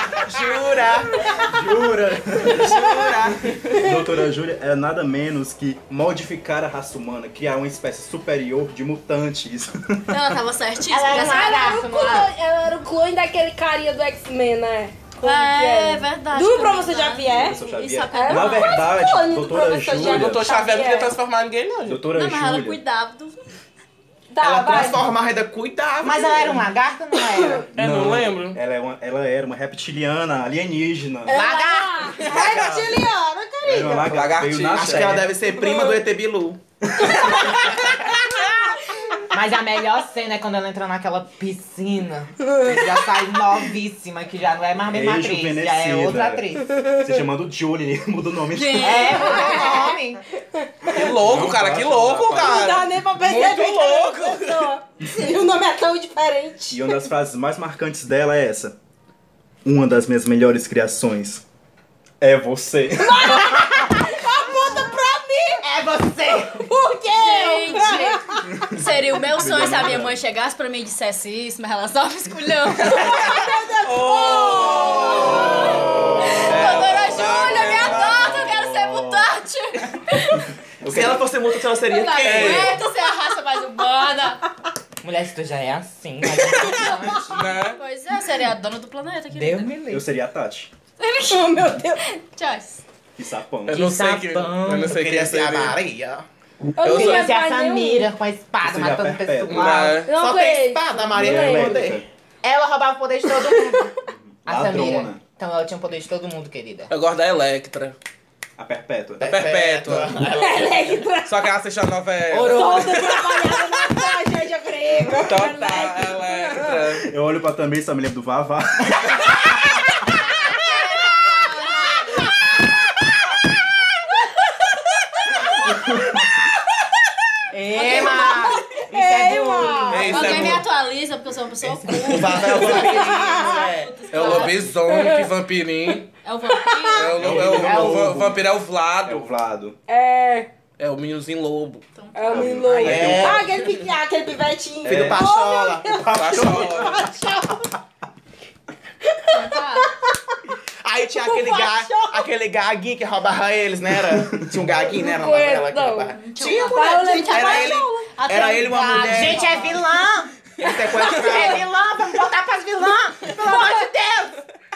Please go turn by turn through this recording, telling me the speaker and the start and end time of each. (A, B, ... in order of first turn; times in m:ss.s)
0:00.2-0:01.2 A
0:01.4-0:02.7 B
0:02.5-0:03.4 A
0:03.7-0:10.4 B
0:10.1-0:11.8 C
0:10.9-0:12.3 D
0:11.1-0:17.6 E
0:15.2-0:18.9 C
0:17.3-0:20.5 B
0:18.1-0:21.1 E
0:19.9-0:22.0 F
0:21.8-0:22.8 B
0:22.0-0:23.5 C
0:24.3-0:25.1 E
0:24.4-0:26.6 A
0:26.0-0:27.7 D
0:27.7-0:31.4 B
0:27.8-0:28.6 F
0:31.3-0:34.1 E
0:31.3-0:32.4 D
0:32.4-0:32.7 F
0:32.4-0:32.9 A
0:33.6-0:35.3 B
0:33.9-0:35.3 F
0:34.7-0:36.6 A
0:37.1-0:38.2 E
0:39.3-0:46.7 D
0:42.4-0:42.7 E
0:44.8-0:49.2 B
0:48.5-0:49.8 C
0:48.8-0:50.2 D
0:49.0-0:50.0 E
0:50.5-0:50.9 E
0:50.9-0:54.7 F
0:50.9-0:52.8 B
0:52.4-0:57.0 E
0:56.7-0:58.8 B
0:59.6-1:01.4 B
1:02.2-1:03.9 B
1:03.0-1:05.6 E
1:05.6-1:06.7 D
1:06.7-1:08.6 E
1:07.1-1:13.4 C
1:08.6-1:10.2 B
1:12.8-1:18.5 F
1:13.2-1:15.7 E
1:14.9-1:20.4 C
1:16.5-1:16.9 B
1:17.6-1:19.3 B
1:20.8-1:21.3 B
1:20.8-1:22.8 A
1:21.7-1:24.4 C
1:22.2-1:22.8 F
1:25.0-1:27.5 D
1:26.7-1:29.7 C
1:27.2-1:27.8 F
1:29.3-1:30.0 D
1:29.9-1:30.7 B
1:31.0-1:32.8 C
1:31.2-1:32.2 E
1:33.2-1:33.8 B
1:33.7-1:35.8 F
1:33.7-1:35.0 D
1:34.8-1:36.2 A
1:36.8-1:38.1 E
1:36.8-1:40.0 D
1:36.8-1:37.3 F
1:38.6-1:39.8 B
1:39.5-1:40.1 F
1:40.0-1:42.0 A
1:40.1-1:41.7 E
1:41.1-1:42.0 B
1:42.4-1:46.9 D
1:43.4-1:43.8 E
1:44.1-1:45.2 B
1:46.9-1:48.0 F
1:48.6-1:49.4 B
1:49.2-1:50.7 A
1:49.2-1:50.2 F
1:50.2-1:51.4 E
1:51.2-1:53.2 F
1:52.3-1:53.0 D
1:52.4-1:56.8 E
1:55.2-1:57.1 F
1:57.0-1:59.5 B
2:00.6-2:02.2 C
2:05.6-2:06.2 B
2:07.5-2:10.5 D
2:07.8-2:08.4 C
2:07.8-2:10.3 E
2:09.9-2:10.6 F
2:10.0-2:14.7 C
2:11.9-2:13.9 A
2:12.6-2:13.7 E
2:14.1-2:16.1 F
2:14.9-2:15.2 E
2:16.2-2:17.2 C
2:16.5-2:17.0 E
2:16.9-2:19.3 F
2:17.2-2:18.4 B
2:17.3-2:18.0 A
2:19.0-2:19.8 B
2:19.9-2:20.5 E
2:20.8-2:21.8 F
2:21.9-2:22.6 C
2:22.1-2:27.6 E
2:22.3-2:23.4 B
2:22.7-2:23.5 A
2:24.8-2:25.3 B
2:24.8-2:26.7 A
2:26.1-2:27.1 F
2:26.3-2:26.7 B
2:29.0-2:30.3 E
2:29.3-2:29.9 C
2:30.8-2:39.6 A
2:31.2-2:32.3 E
2:35.0-2:36.1 E
2:36.1-2:39.9 C
2:36.6-2:38.0 E
2:39.0-2:44.4 D
2:40.6-2:41.6 A
2:40.6-2:41.4 E
2:43.4-2:43.8 E